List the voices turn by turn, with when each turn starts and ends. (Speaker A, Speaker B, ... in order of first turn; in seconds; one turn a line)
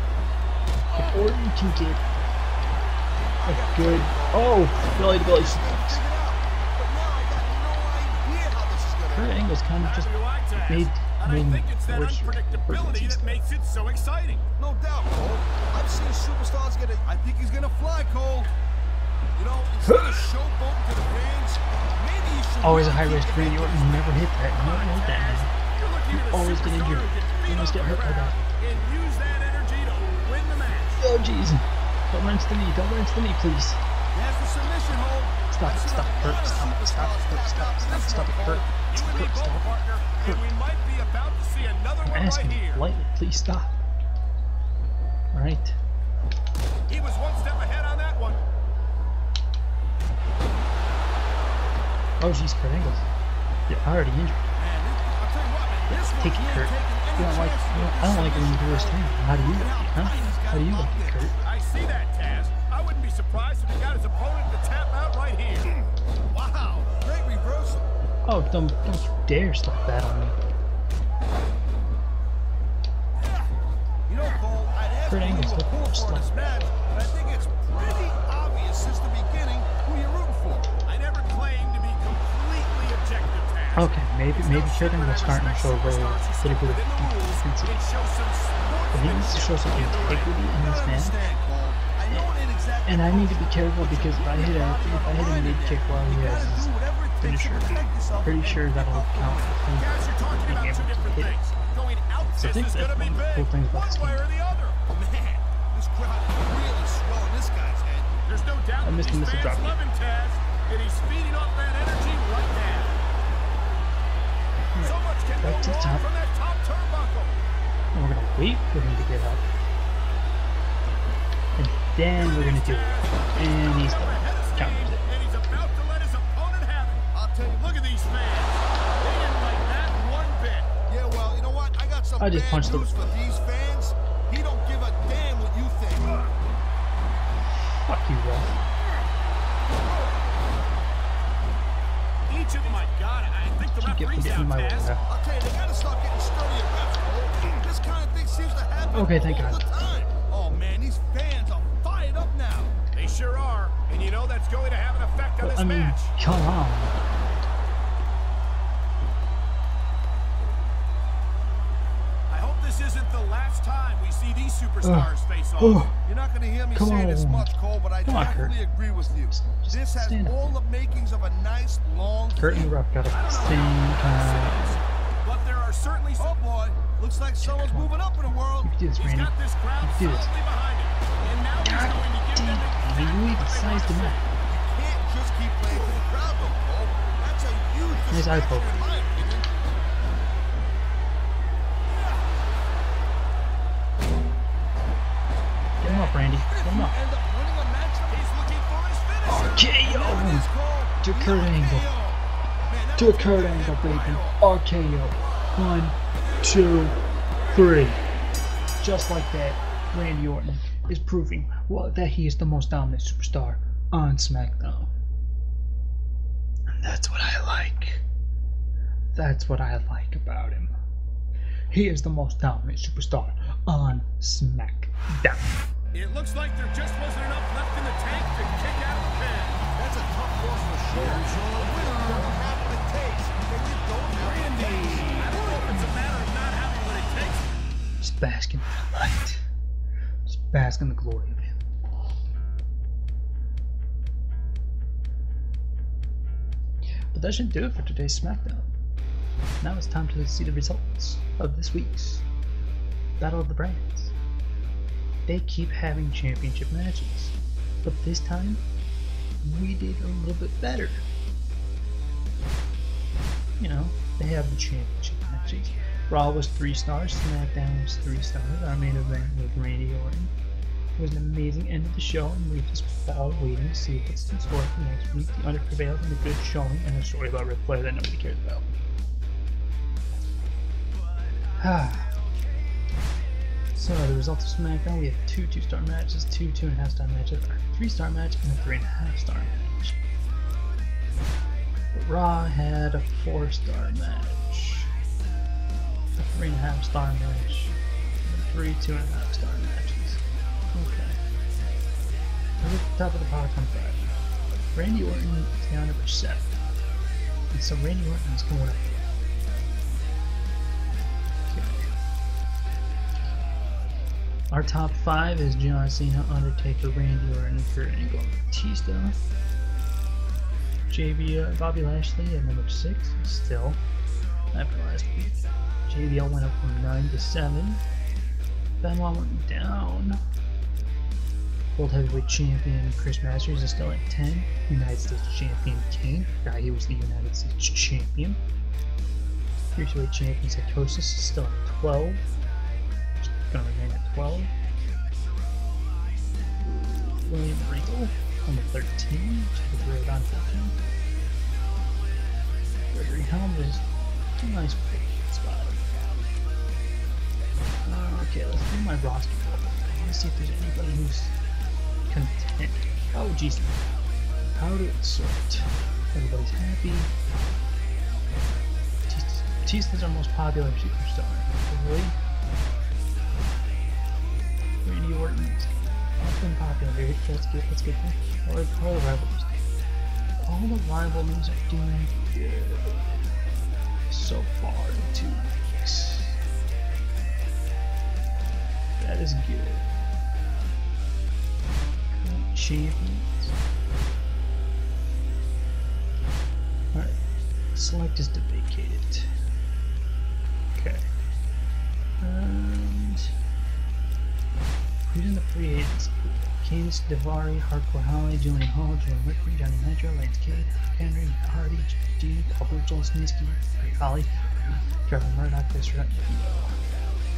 Speaker A: 0.9-2.0
Speaker B: 3.4-9.4
Speaker A: 3.4-6.0
Speaker A: 9.1-10.1
Speaker C: 9.8-14.4
Speaker A: 10.7-13.5
Speaker B: 14.6-18.5
Speaker B: 19.4-24.0
Speaker A: 19.9-20.3
Speaker A: 22.6-25.5
Speaker C: 23.2-31.0
Speaker A: 26.1-28.4
Speaker A: 31.0-33.8
Speaker B: 34.1-38.7
Speaker A: 35.5-40.4
Speaker C: 38.7-42.8
Speaker A: 42.0-43.8
Speaker A: 45.3-45.8
Speaker C: 46.9-48.4
Speaker A: 52.2-53.1
Speaker A: 53.7-54.5
Speaker B: 54.5-61.3
Speaker A: 56.1-61.4
Speaker C: 61.4-65.8
Speaker B: 66.3-67.9
Speaker A: 68.2-70.4
Speaker B: 74.1-80.7
Speaker A: 75.1-76.5
Speaker C: 80.8-90.3
Speaker A: 83.7-87.8
Speaker A: 88.9-91.3
Speaker B: 90.5-99.6
Speaker A: 92.8-101.4
Speaker C: 99.7-104.8
Speaker A: 102.4-104.3
Speaker B: 104.9-108.1
Speaker C: 108.2-113.0
Speaker A: 108.8-109.8
Speaker A: 114.7-116.0
Speaker C: 114.8-117.3
Speaker A: 117.9-119.5
Speaker A: 121.6-125.0
Speaker C: 122.2-127.0
Speaker B: 127.1-127.7
Speaker C: 127.6-130.7
Speaker B: 130.9-136.3
Speaker A: 132.2-132.9
Speaker A: 137.8-138.6
Speaker C: 142.3-144.9
Speaker A: 143.6-145.0
Speaker B: 145.1-152.8
Speaker A: 148.9-149.7
Speaker C: 152.9-156.1
Speaker A: 155.4-156.9
Speaker C: 162.3-165.9
Speaker A: 164.8-165.9
Speaker B: 166.0-172.7
Speaker A: 166.7-167.5
Speaker A: 168.0-168.6
Speaker A: 169.3-170.5
Speaker A: 172.4-174.7
Speaker C: 173.1-176.3
Speaker B: 176.2-178.8
Speaker A: 177.4-177.9
Speaker A: 178.6-180.3
Speaker C: 179.0-184.3
Speaker A: 181.6-184.2
Speaker B: 184.4-189.5
Speaker A: 188.0-188.7
Speaker A: 195.8-196.9
Speaker B: 195.8-198.3
Speaker C: 198.1-199.8
Speaker A: 199.2-201.9
Speaker B: 199.7-204.4
Speaker A: 202.9-207.0
Speaker A: 207.5-208.0
Speaker A: 208.8-214.9
Speaker A: 216.7-218.0
Speaker A: 219.1-220.7
Speaker A: 221.7-225.7
Speaker C: 225.9-229.7
Speaker B: 229.8-235.1
Speaker C: 230.9-231.3
Speaker C: 234.2-237.5
Speaker A: 238.0-239.4
Speaker A: 240.2-241.5
Speaker A: 247.1-248.7
Speaker A: 249.6-252.2
Speaker A: 253.2-254.1
Speaker A: 255.2-258.6
Speaker A: 259.4-261.0
Speaker A: 263.6-270.3
Speaker A: 270.9-278.7
Speaker A: 281.6-282.1
Speaker A: 283.7-290.0
Speaker A: 291.9-294.9
Speaker A: 296.1-300.2
Speaker A: 300.7-301.2
Speaker A: 302.6-304.1
Speaker A: 304.7-306.5
Speaker A: 307.5-309.1
Speaker A: 311.5-311.9
Speaker A: 314.5-319.2
Speaker A: 320.9-323.8
Speaker A: 324.5-327.8
Speaker A: 328.8-330.2
Speaker A: 331.8-338.4
Speaker A: 339.8-342.2
Speaker A: 343.5-344.5
Speaker A: 346.6-350.8
Speaker A: 352.9-353.9
Speaker A: 354.4-356.3
Speaker A: 357.9-361.3
Speaker A: 362.1-364.0
Speaker A: 364.6-367.1
Speaker A: 369.1-372.1
Speaker A: 374.8-379.6
Speaker A: 380.4-383.1
Speaker A: 384.1-386.4
Speaker A: 389.0-389.9
Speaker A: 392.0-393.5
Speaker A: 397.7-399.3
Speaker A: 400.7-401.0
Speaker A: 402.2-403.3
Speaker A: 405.1-414.3
Speaker A: 415.1-416.8